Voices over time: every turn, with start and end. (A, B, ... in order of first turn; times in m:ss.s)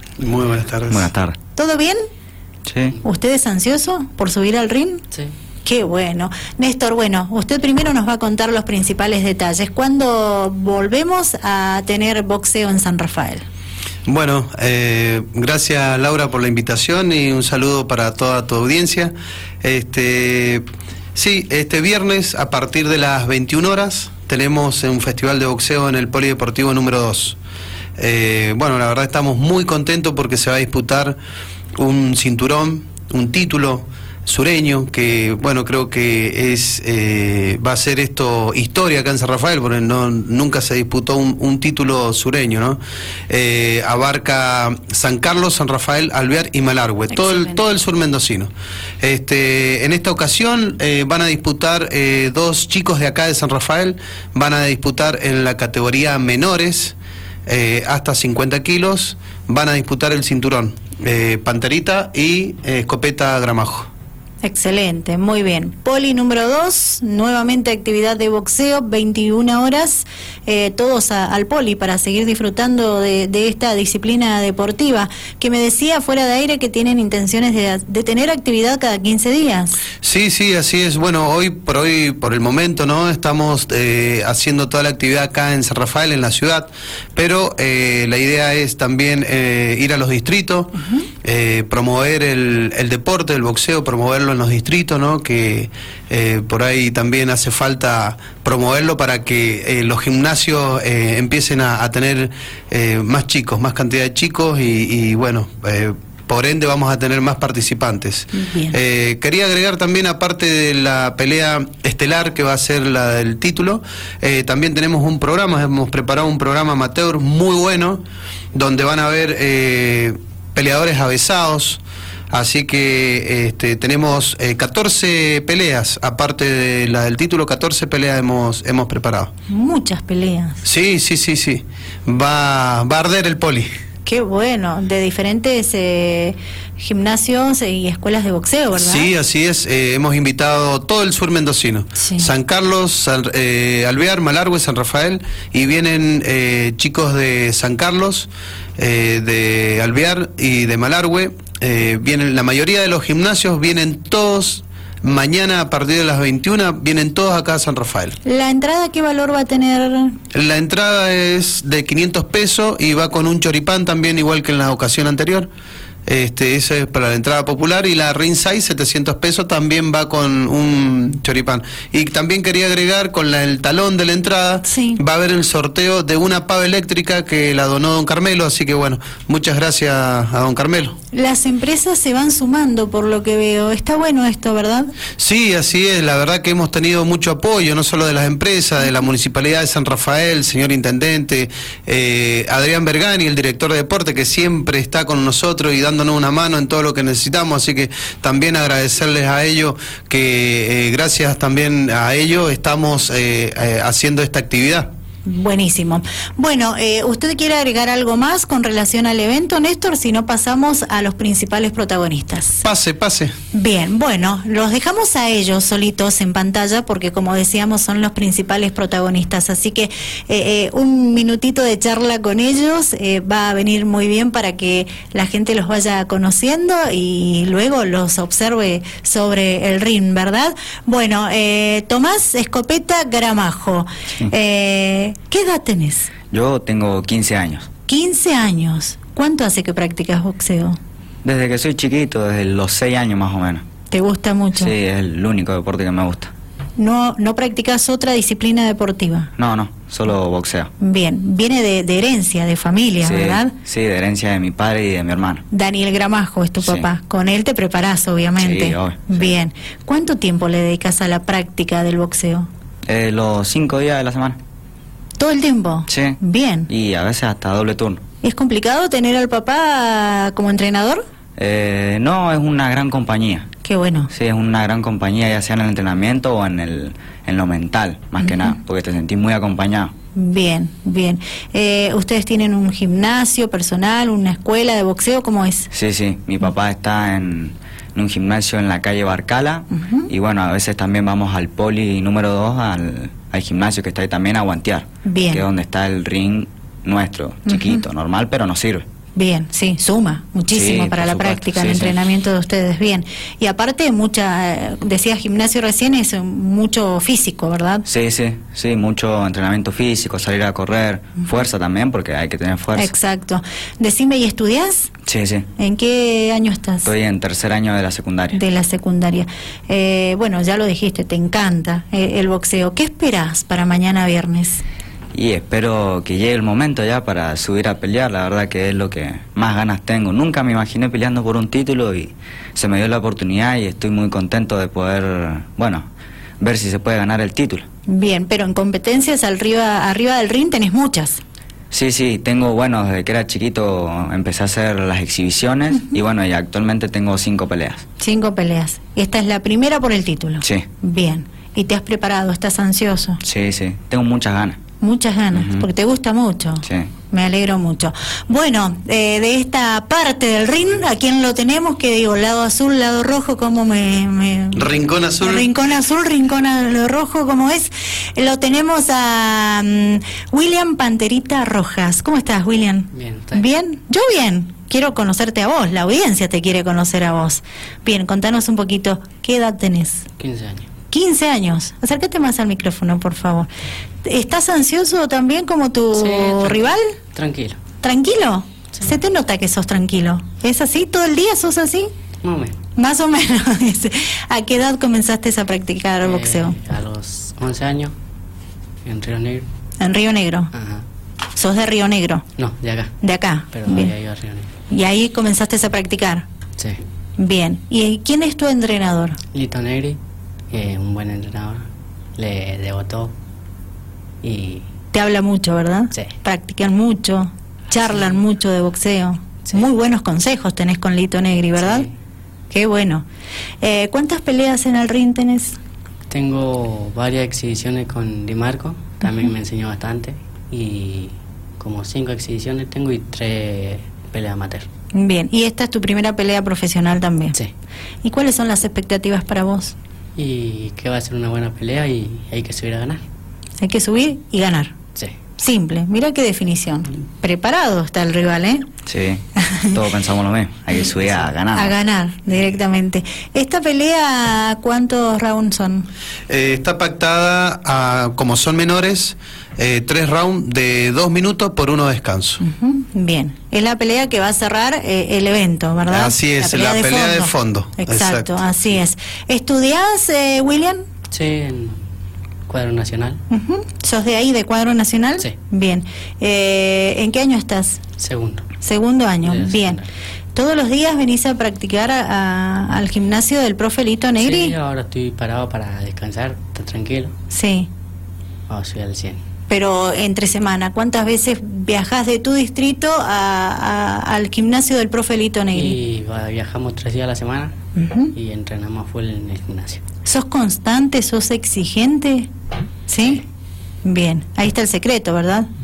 0:00.2-0:01.0 A
0:00.9-0:01.4 B
0:01.5-0:02.0 C
0:02.6-0:03.0 B
0:03.0-0:05.0 C
0:05.6-0:13.4 C
0:14.0-0:20.6 A
0:21.1-0:27.4 A
0:28.0-0:31.2 A
0:31.8-0:48.5 A
0:47.1-0:47.6 C
0:49.0-0:56.9 A
0:57.4-1:03.9 A
1:04.4-1:19.8 C
1:20.0-1:58.0 A
1:48.3-1:48.7 C
1:58.5-2:09.3 A
2:09.5-2:10.6 C
2:10.6-2:13.7 A
2:14.0-2:19.1 C
2:18.7-2:38.2 A
2:22.0-2:22.3 C
2:38.2-2:40.2 C
2:40.3-2:45.5 A
2:46.0-3:01.0 A
2:54.6-2:55.0 C
3:01.1-3:04.9 C
3:05.2-3:24.9 A
3:25.2-3:32.6 C
3:32.6-3:33.3 A
3:33.5-3:56.1 C
3:56.3-3:57.7 B
3:57.9-4:00.8 C
4:01.2-4:03.6 B
4:03.9-4:04.7 C
4:04.6-4:06.3 B
4:06.8-4:09.3 C
4:09.4-4:10.7 B
4:10.8-4:13.5 C
4:13.0-4:15.4 B
4:15.5-4:22.5 C
4:16.6-4:16.9 B
4:18.4-4:19.3 B
4:22.8-4:24.4 B
4:25.2-4:26.7 C
4:25.9-4:28.0 B
4:28.2-4:31.0 C
4:31.4-4:33.5 B
4:33.6-4:34.1 C
4:34.1-4:39.9 B
4:40.1-4:45.7 C
4:45.7-4:58.8 B
4:49.8-4:50.1 C
4:55.0-4:55.4 C
4:57.5-4:57.8 C
4:59.1-5:07.8 C
5:00.5-5:02.0 B
5:07.8-5:12.9 B
5:12.8-5:14.9 C
5:15.0-5:15.5 B
5:15.6-5:16.9 C
5:16.8-5:18.4 B
5:18.3-5:24.6 C
5:25.1-5:35.9 B
5:36.4-5:37.6 B
5:37.9-5:41.2 C
5:41.7-5:47.8 B
5:48.0-5:53.2 C
5:53.2-5:54.6 B
5:54.8-6:04.6 C
5:55.3-5:55.7 B
6:04.5-6:05.5 A
6:05.2-6:20.0 C
6:12.9-6:13.4 D
6:20.2-6:20.7 D
6:20.9-6:23.5 C
6:24.0-6:26.9 C
6:25.9-6:27.6 D
6:27.8-6:31.9 C
6:32.2-6:32.6 D
6:32.8-6:36.6 C
6:36.0-6:37.9 D
6:38.8-6:39.5 D
6:39.8-6:40.5 C
6:40.5-6:40.8 D
6:41.3-6:42.2 C
6:42.4-6:43.0 D
6:43.0-6:43.9 C
6:43.5-6:44.5 D
6:44.7-6:46.2 C
6:47.2-6:49.2 C
6:49.3-6:50.0 D
6:50.5-6:53.1 D
6:54.2-6:54.6 D
6:54.9-7:01.8 C
7:01.5-7:01.9 D
7:02.5-7:03.0 C
7:03.6-7:05.6 C
7:06.1-7:14.7 D
7:14.9-7:17.4 C
7:18.0-7:19.7 C
7:20.2-7:23.0 D
7:23.6-7:24.7 C
7:25.4-7:28.6 C
7:28.8-7:31.7 B
7:31.5-7:35.9 C
7:36.3-7:42.4 A
7:42.4-7:50.8 C
7:45.9-7:48.4 A
7:51.1-7:51.8 D
7:52.5-7:53.2 D
7:53.3-7:57.8 C
7:58.0-7:58.5 D
7:58.6-7:59.8 C
7:59.2-7:59.9 D
8:00.3-8:04.5 C
8:04.2-8:07.1 D
8:07.3-8:07.7 C
8:08.5-8:09.2 D
8:09.5-8:15.8 C
8:15.5-8:17.6 D
8:17.8-8:18.1 C
8:18.1-8:19.8 D
8:20.0-8:22.3 C
8:22.9-8:23.2 C
8:23.8-8:25.5 C